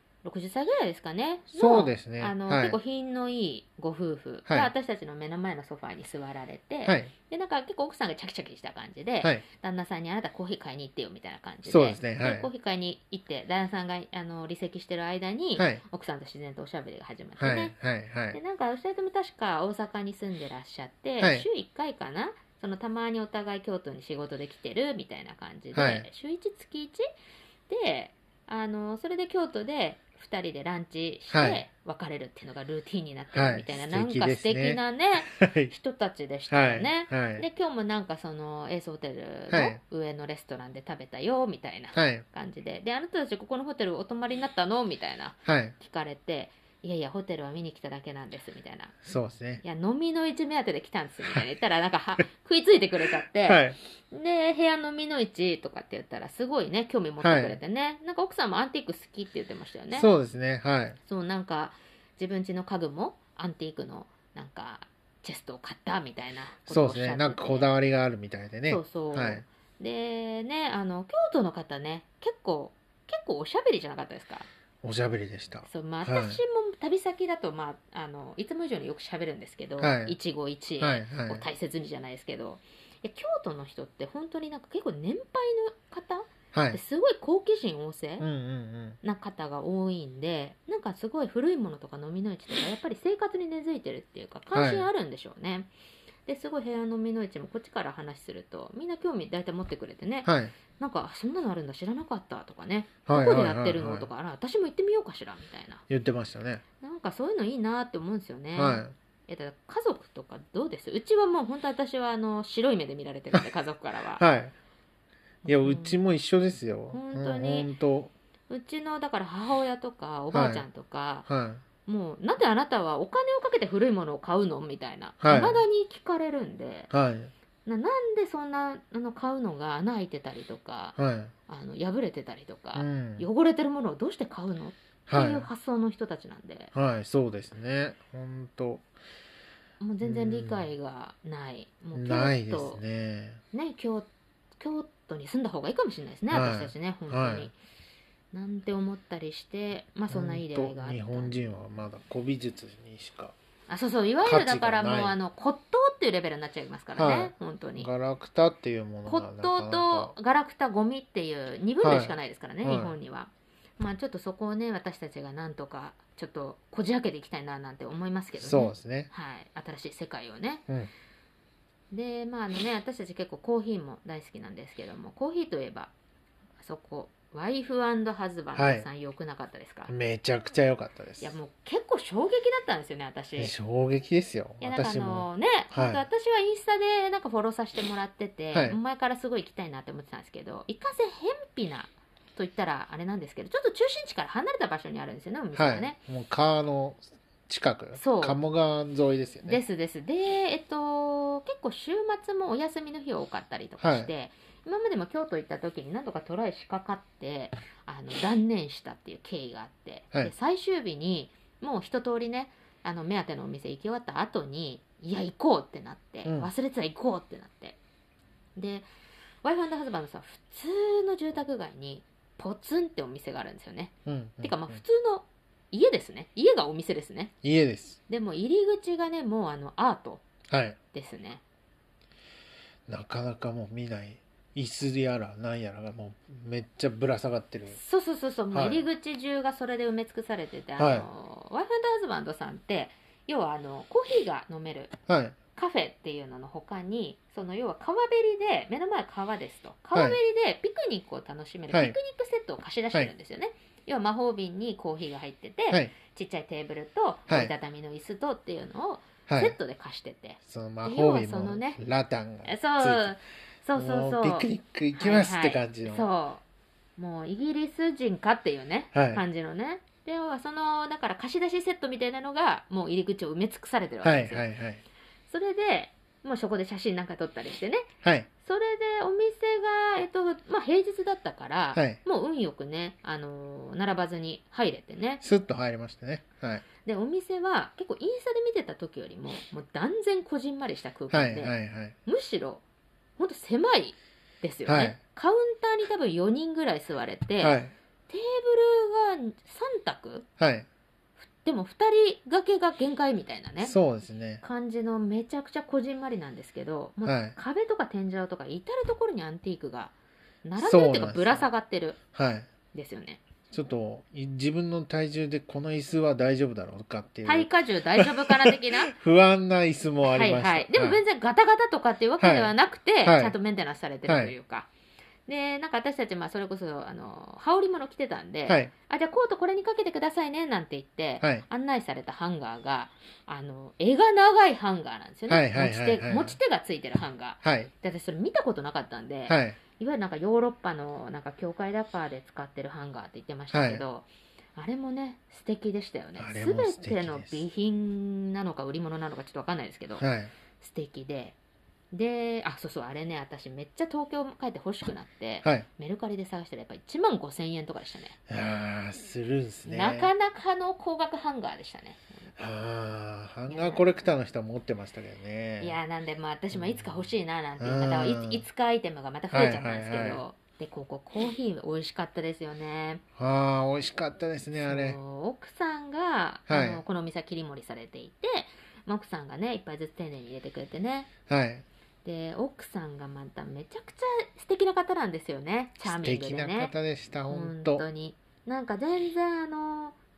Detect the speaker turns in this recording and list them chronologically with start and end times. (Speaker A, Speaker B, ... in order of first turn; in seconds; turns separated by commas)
Speaker A: 0.2-17.7, Speaker B: 1.5-2.8, Speaker B: 6.8-7.1, Speaker B: 11.7-12.5, Speaker B: 15.6-15.8, Speaker B: 17.4-18.4, Speaker A: 18.3-27.0, Speaker B: 21.2-21.4, Speaker B: 25.7-26.1, Speaker A: 27.7-49.0, Speaker B: 31.3-31.6, Speaker B: 33.3-35.7, Speaker B: 36.5-37.4, Speaker B: 39.5-39.8, Speaker B: 41.9-42.2, Speaker B: 45.5-45.7, Speaker B: 49.0-49.6, Speaker A: 49.6-60.1, Speaker B: 53.5-53.8, Speaker B: 57.2-57.6, Speaker B: 59.9-61.0, Speaker A: 61.0-67.7, Speaker B: 66.7-69.4, Speaker A: 68.7-74.5, Speaker B: 74.8-76.4, Speaker A: 75.7-88.2, Speaker B: 79.8-80.2, Speaker B: 80.8-81.4, Speaker B: 86.5-86.8, Speaker B: 88.2-89.0, Speaker A: 89.0-95.7, Speaker B: 94.5-94.9, Speaker A: 96.2-105.8, Speaker B: 100.2-100.5, Speaker B: 103.0-104.1, Speaker B: 105.9-106.6, Speaker A: 106.8-114.2, Speaker B: 108.5-108.9, Speaker B: 114.2-114.5, Speaker A: 115.4-116.0, Speaker B: 115.5-118.1, Speaker A: 116.9-117.7, Speaker A: 118.5-121.3, Speaker B: 120.3-120.7, Speaker B: 121.3-121.6, Speaker A: 121.8-126.9, Speaker B: 125.2-125.6, Speaker B: 126.9-127.3, Speaker A: 127.6-131.0, Speaker B: 131.0-131.3, Speaker A: 131.5-136.7, Speaker B: 132.7-133.3, Speaker B: 135.1-135.5, Speaker B: 136.7-138.8, Speaker A: 139.8-142.8, Speaker B: 140.0-140.7, Speaker B: 141.9-143.4, Speaker A: 143.5-144.1, Speaker A: 144.6-147.5, Speaker B: 146.3-147.5, Speaker A: 148.3-151.4, Speaker B: 150.1-153.3, Speaker A: 153.7-157.9, Speaker B: 154.2-155.2, Speaker B: 156.9-160.1, Speaker A: 159.1-170.6, Speaker B: 161.8-162.9, Speaker B: 168.4-169.1, Speaker A: 171.9-175.9, Speaker A: 176.6-179.9, Speaker B: 178.5-178.8, Speaker B: 179.9-181.3, Speaker A: 181.2-183.5, Speaker B: 183.4-186.0, Speaker A: 184.6-195.9, Speaker B: 188.5-188.8, Speaker B: 195.5-199.6, Speaker A: 197.9-198.4, Speaker A: 199.4-217.8, Speaker B: 203.8-204.1, Speaker B: 216.2-216.5, Speaker A: 218.6-218.8, Speaker A: 219.4-227.3, Speaker B: 224.1-224.8, Speaker B: 227.4-228.0, Speaker A: 228.1-230.2, Speaker B: 230.5-230.8, Speaker A: 230.9-231.4, Speaker B: 232.9-237.8, Speaker A: 237.7-244.9, Speaker B: 238.5-238.8, Speaker B: 240.8-241.1, Speaker B: 245.1-245.4, Speaker A: 245.5-261.8, Speaker B: 251.7-251.9, Speaker B: 259.3-259.5, Speaker B: 260.4-263.1, Speaker A: 262.4-266.4, Speaker B: 263.7-266.1, Speaker A: 267.0-274.4, Speaker B: 268.9-269.2, Speaker B: 274.0-274.8, Speaker A: 275.3-277.9, Speaker B: 278.0-278.3, Speaker A: 278.4-285.2, Speaker B: 285.2-286.6, Speaker A: 286.8-291.5, Speaker B: 291.1-291.9, Speaker A: 292.1-292.6, Speaker A: 293.2-297.6, Speaker B: 294.6-295.0, Speaker B: 297.4-297.7, Speaker A: 298.1-300.2, Speaker B: 300.4-300.7, Speaker A: 301.2-303.8, Speaker B: 303.6-304.4, Speaker A: 304.4-309.9, Speaker B: 307.0-307.4, Speaker A: 310.4-312.0, Speaker B: 310.6-311.4, Speaker B: 312.1-312.5, Speaker A: 312.7-313.2, Speaker B: 313.5-321.0, Speaker A: 317.2-318.9, Speaker A: 320.0-324.7, Speaker B: 322.2-323.4, Speaker B: 324.1-324.3, Speaker A: 325.3-350.0, Speaker B: 335.3-336.4, Speaker B: 337.4-337.7, Speaker B: 339.3-339.6, Speaker B: 343.5-343.8, Speaker B: 346.2-347.4, Speaker B: 350.0-350.3, Speaker A: 350.6-351.4, Speaker A: 351.9-358.2, Speaker B: 358.3-360.1, Speaker A: 359.7-362.3, Speaker B: 362.4-365.8, Speaker A: 363.5-363.9, Speaker A: 365.6-373.0, Speaker B: 366.5-367.0, Speaker B: 367.6-368.4, Speaker B: 369.3-370.2, Speaker B: 373.1-375.0, Speaker A: 374.6-381.1, Speaker B: 376.5-376.8, Speaker B: 381.3-381.6, Speaker A: 382.0-386.7, Speaker B: 385.8-387.8, Speaker A: 387.3-389.9